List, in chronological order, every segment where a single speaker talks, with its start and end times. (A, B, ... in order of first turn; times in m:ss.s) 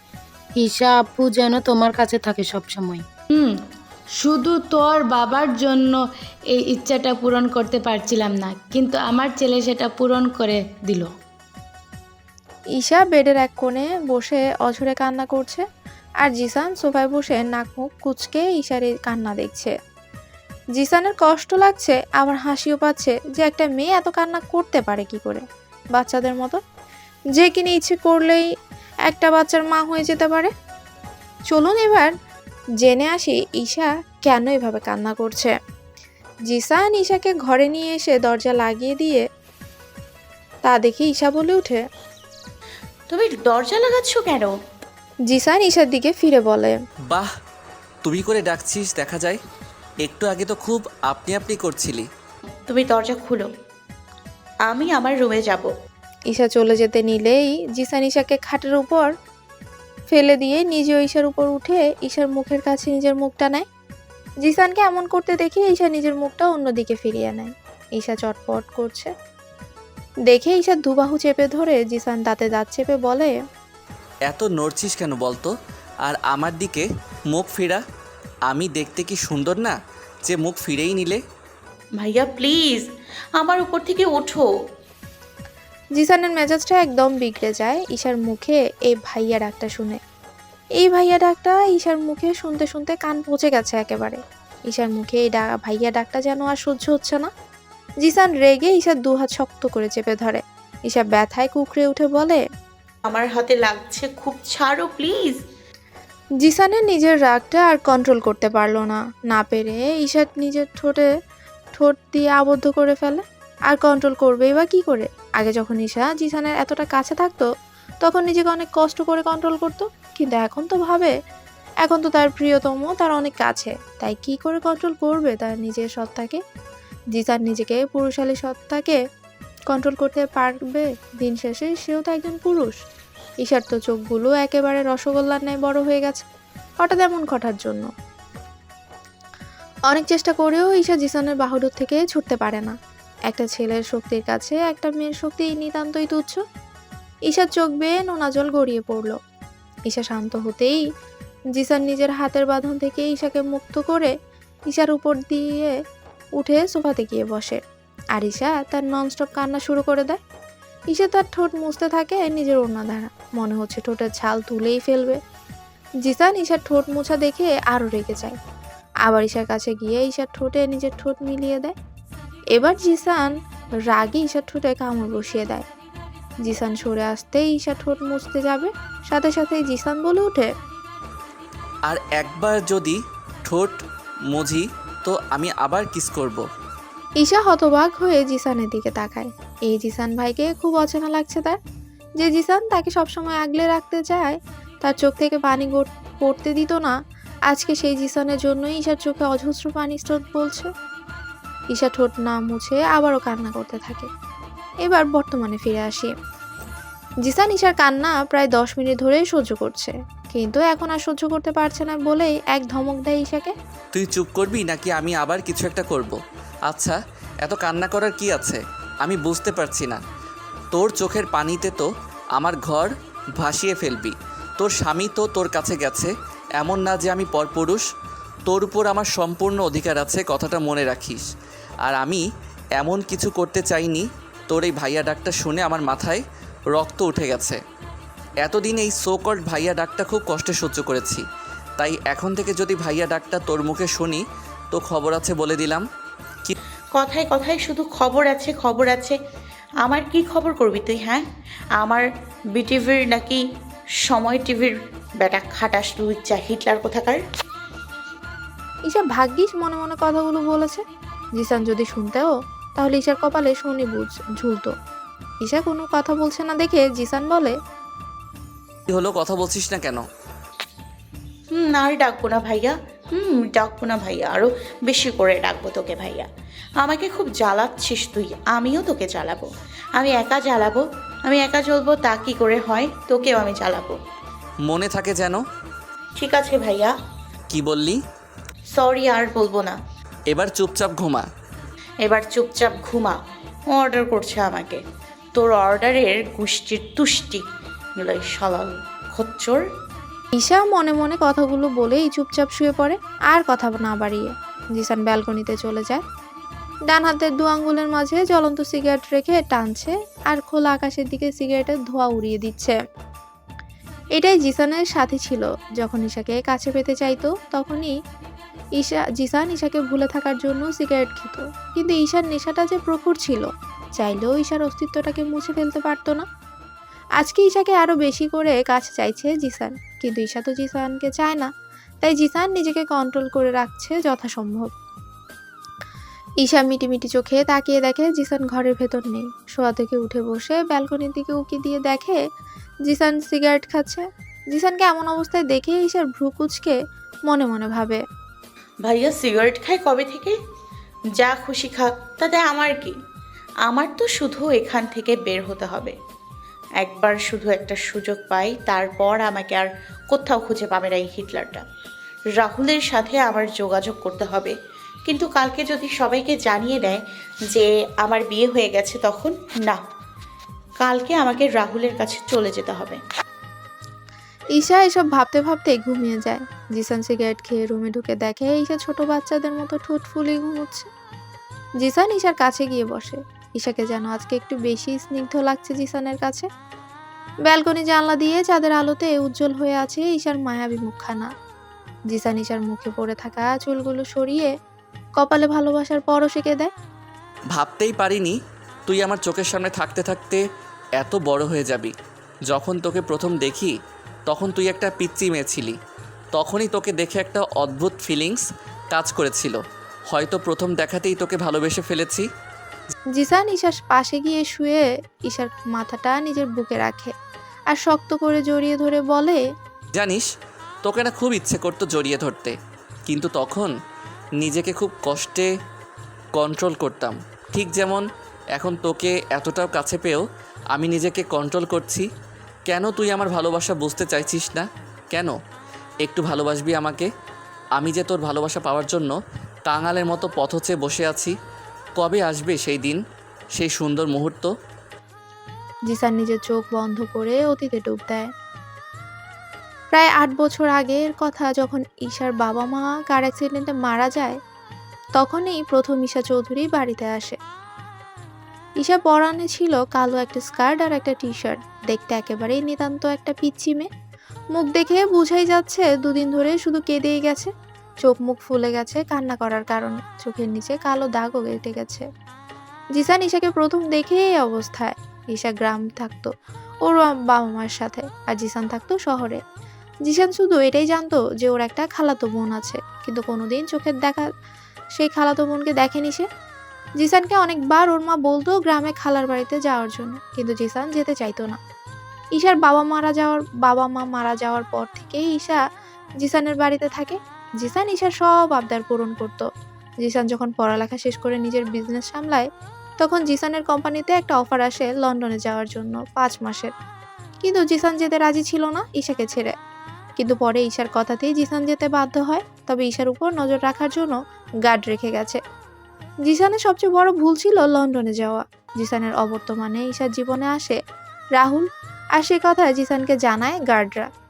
0:00.6-0:03.0 A
0:04.2-0:06.0 B
0:06.5-0:11.1 B
0:12.8-0:15.6 C
0:16.2-0:19.7 C
0:20.8-0:26.6 C
0:27.4-0:28.4 C
0:29.1-0:30.5 C
0:31.5-0:32.1 C
0:32.8-0:35.5 C
0:36.5-0:39.2 C
0:40.6-0:41.8 C
0:43.1-0:44.5 D
0:45.3-0:46.8 C
0:48.0-0:49.4 E
0:50.0-0:52.1 E
0:52.7-0:53.5 D
0:54.7-0:55.7 D
0:56.3-0:59.1 C
1:00.1-1:03.6 C
1:04.4-1:09.1 C
1:10.3-1:13.3 C
1:14.3-1:15.5 E
1:16.0-1:17.8 E
1:18.5-1:21.2 E
1:22.0-1:22.8 D
1:23.4-1:24.5 D
1:26.0-1:30.0 C
1:30.8-1:37.3 C
1:38.0-1:42.4 C
1:43.1-1:45.4 D
1:46.4-1:51.1 C
1:51.8-1:57.5 C
1:58.0-2:01.1 C
2:01.8-2:06.4 C
2:07.1-2:09.0 C
2:09.7-2:12.8 C
2:13.4-2:16.2 C
2:16.8-2:17.9 C
2:19.9-2:22.8 C
2:23.3-2:26.4 C
2:27.3-2:29.2 C
2:29.9-2:30.8 C
2:31.6-2:34.1 C
2:34.7-2:35.7 C
2:36.4-2:37.6 C
2:38.2-2:40.2 C
2:40.9-2:45.2 C
2:46.0-2:48.4 C
2:49.0-2:51.7 C
2:52.5-2:53.3 C
2:53.9-2:55.6 C
2:56.4-3:00.5 C
3:01.9-3:03.8 E
3:04.3-3:06.4 E
3:07.2-3:11.6 C
3:12.2-3:16.9 C
3:17.5-3:20.7 C
3:21.7-3:24.1 C
3:24.8-3:26.1 C
3:27.2-3:33.5 C
3:33.9-3:40.0 E
3:40.7-3:47.8 E
3:48.5-3:51.2 E
3:51.8-3:52.2 E
3:52.8-3:57.6 E
3:58.4-4:01.2 E
4:01.8-4:05.8 E
4:07.0-4:09.2 D
4:09.8-4:11.2 D
4:12.6-4:13.4 D
4:14.1-4:17.2 D
4:18.9-4:20.8 C
4:21.4-4:24.7 C
4:25.4-4:27.6 C
4:28.9-4:30.0 E
4:31.5-4:36.3 D
4:36.8-4:44.0 D
4:44.6-4:45.4 E
4:46.2-4:46.9 D
4:47.5-4:48.0 E
4:48.7-4:49.8 D
4:50.3-4:51.3 E
4:52.0-4:53.2 D
4:53.7-4:54.8 D
4:55.4-4:57.4 D
4:58.0-4:59.6 D
5:00.4-5:06.0 C
5:06.9-5:12.8 C
5:14.2-5:17.9 C
5:18.8-5:26.2 C
5:27.2-5:31.5 C
5:32.0-5:34.7 C
5:36.4-5:42.2 C
5:42.9-5:46.8 C
5:47.3-5:48.0 C
5:48.8-5:50.4 D
5:51.2-5:53.0 D
5:53.7-5:56.0 D
5:56.8-6:01.6 D
6:02.4-6:04.6 D
6:05.1-6:09.8 D
6:10.8-6:13.0 D
6:14.6-6:20.9 C
6:21.8-6:26.5 C
6:27.5-6:31.3 C
6:32.1-6:34.5 C
6:35.2-6:36.7 C
6:37.5-6:38.4 E
6:38.9-6:40.4 E
6:41.0-6:41.9 E
6:42.5-6:43.7 E
6:44.3-6:45.8 E
6:46.3-6:49.6 E
6:50.1-6:52.3 E
6:53.2-6:57.1 C
6:57.7-6:59.4 C
6:59.9-7:00.3 E
7:00.8-7:02.6 E
7:03.1-7:03.7 E
7:04.4-7:05.5 E
7:06.3-7:12.1 E
7:12.7-7:15.3 E
7:16.0-7:17.1 E
7:17.8-7:19.1 E
7:19.7-7:21.3 E
7:22.0-7:23.0 E
7:23.6-7:24.5 E
7:25.9-7:28.3 C
7:29.9-7:34.4 C
7:35.2-7:37.4 C
7:38.8-7:43.9 C
7:44.6-7:47.5 C
7:48.0-7:52.0 C
7:53.0-7:56.3 C
7:56.8-7:59.4 C
8:00.1-8:04.2 C
8:05.0-8:06.3 C
8:07.0-8:11.6 C
8:12.4-8:15.6 C
8:16.2-8:19.4 C
8:20.0-8:22.5 C
8:23.0-8:26.7 C
8:27.4-8:29.5 C
8:30.2-8:35.4 C
8:36.3-8:40.8 C
8:41.4-8:44.1 C